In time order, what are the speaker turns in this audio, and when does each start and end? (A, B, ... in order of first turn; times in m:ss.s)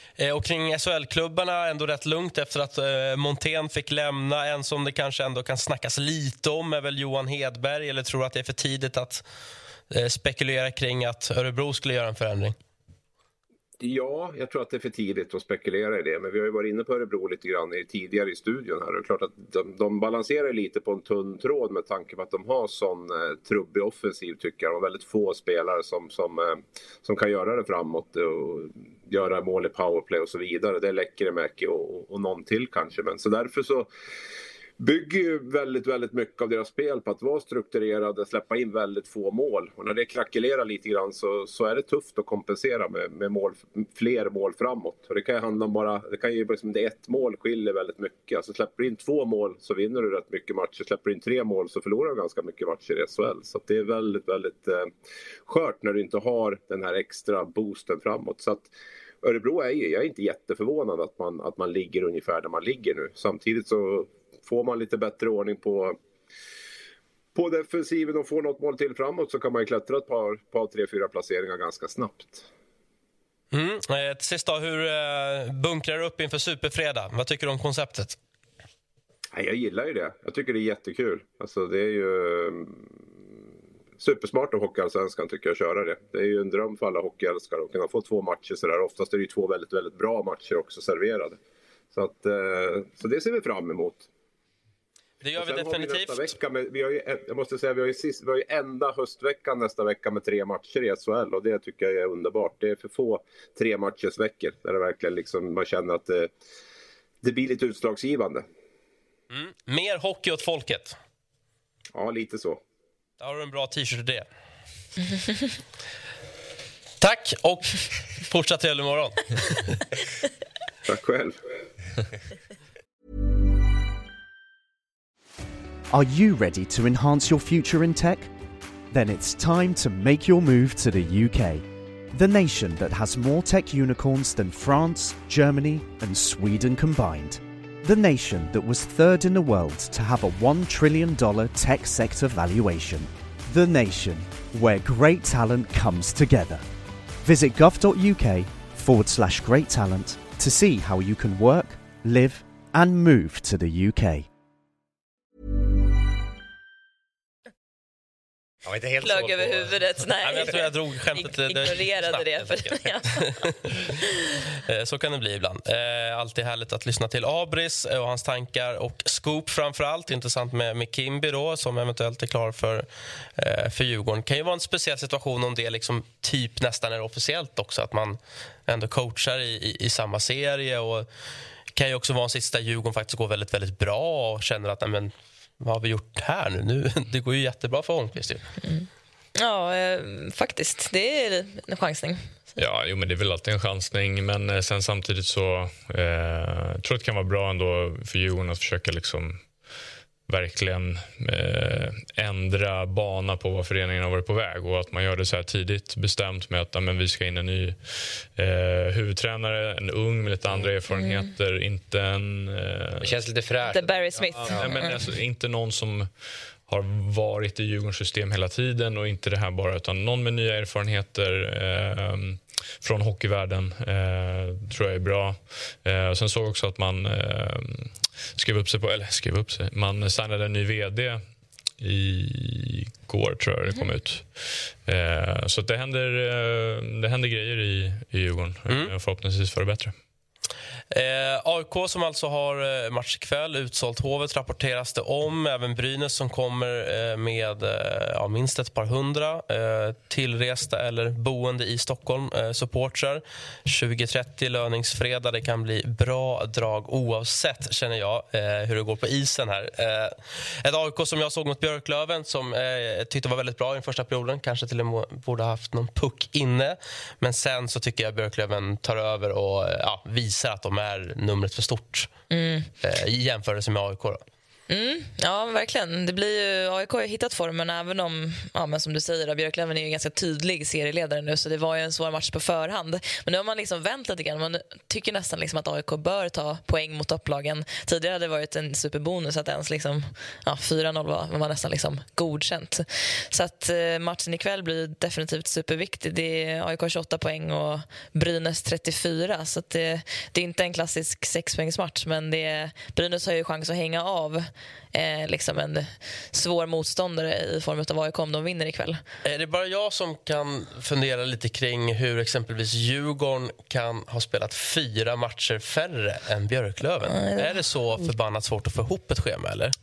0:00.2-0:09.2 A
0:09.9-0:12.6 A
0:13.8-0:33.9 B
0:34.8-0:54.9 B
0:55.4-1:06.0 B
1:07.4-1:12.5 B
1:13.5-1:18.2 A
1:19.3-1:22.9 B
1:24.0-1:31.4 B
1:31.9-1:34.1 B
1:35.2-1:36.3 A
1:35.4-1:46.3 B
1:47.2-1:48.5 B
1:49.3-1:51.0 A
1:51.9-1:52.6 B
1:53.2-1:54.3 A
1:57.0-1:59.8 A
2:00.9-2:01.4 B
2:05.9-2:08.3 C
2:08.9-2:26.6 C
2:27.2-2:34.3 C
2:38.6-2:40.0 D
2:39.0-2:43.4 E
2:40.2-2:43.9 A
2:44.7-3:01.1 A
3:01.7-3:08.5 A
3:08.6-3:12.3 E
3:12.6-3:19.5 F
3:20.3-3:33.2 F
3:30.9-3:31.2 E
3:33.0-3:34.9 D
3:33.7-3:35.0 E
3:34.2-3:51.2 F
3:51.8-3:59.9 F
3:58.7-3:58.9 A
4:00.9-4:32.1 A
4:32.3-4:32.7 E
4:32.8-4:34.2 A
4:34.7-5:09.0 E
5:09.2-5:19.8 A
5:17.1-5:17.6 E